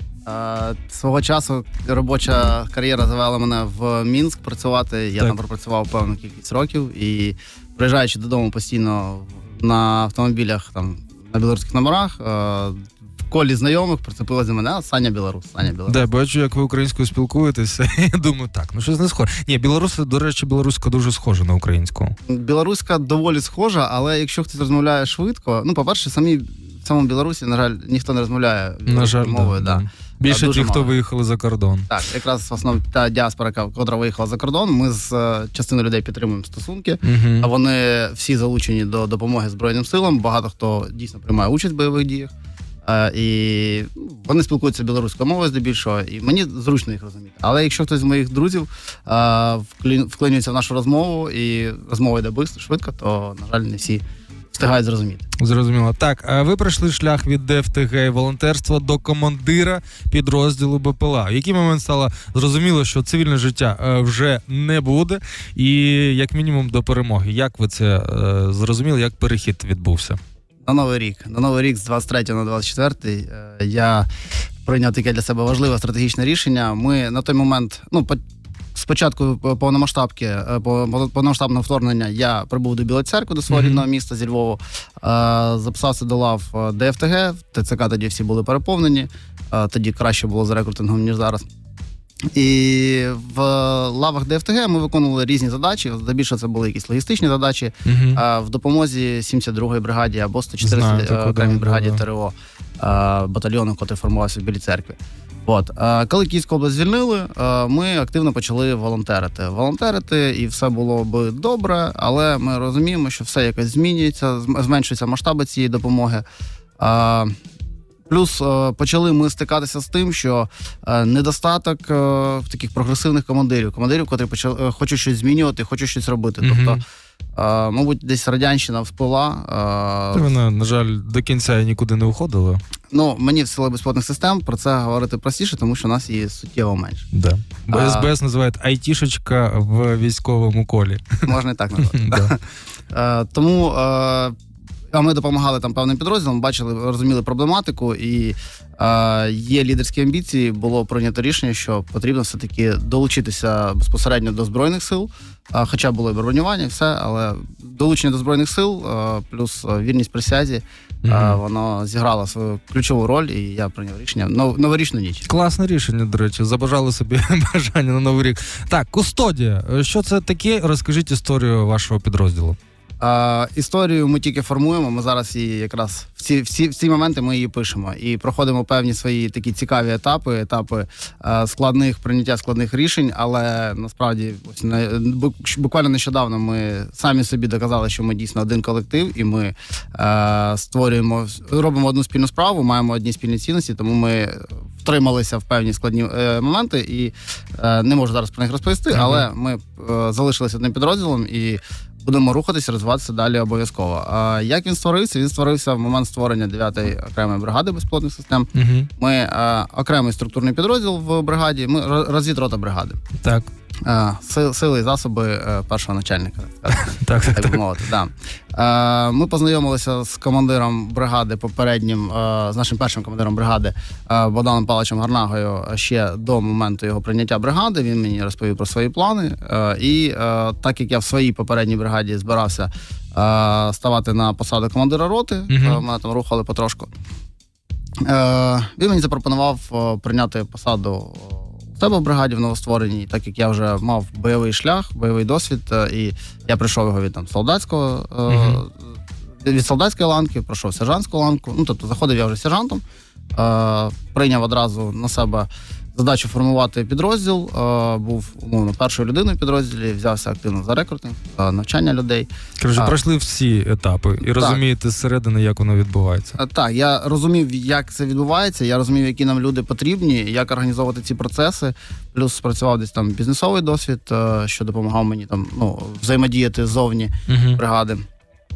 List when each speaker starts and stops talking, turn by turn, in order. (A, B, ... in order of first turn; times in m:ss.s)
0:00.2-0:16.0 A
0:15.8-0:22.1 B
0:22.3-0:30.9 A
0:28.9-0:31.9 B
0:31.9-0:42.3 A
0:37.0-0:37.5 B
0:42.8-0:54.0 A
0:54.5-0:55.2 A
0:55.4-1:10.2 B
1:10.6-1:14.1 A
1:14.6-1:18.2 A
1:18.7-1:31.4 A
1:23.5-1:23.8 B
1:32.3-1:56.2 A
1:37.8-1:38.2 B
1:40.6-1:42.0 B
1:56.8-1:57.3 A
1:58.1-2:06.8 A
2:06.4-2:06.8 B
2:07.3-2:10.3 A
2:10.1-2:12.6 B
2:12.9-2:17.0 A
2:17.1-2:21.2 B
2:17.7-2:18.1 A
2:21.2-2:24.3 A
2:21.8-2:22.3 B
2:24.9-2:45.3 A
2:41.0-2:41.4 B
2:45.3-2:52.6 B
2:53.0-3:33.0 A
3:18.9-3:19.2 B
3:28.5-3:28.9 B
3:33.2-3:33.5 B
3:33.8-3:56.9 A
3:36.9-3:37.6 B
3:55.5-3:55.8 B
3:58.0-4:08.8 A
4:08.3-4:08.6 B
4:09.4-4:12.8 A
4:13.3-4:23.0 A
4:22.6-4:26.4 B
4:24.2-4:24.6 A
4:26.4-4:38.0 A
4:37.3-4:37.6 B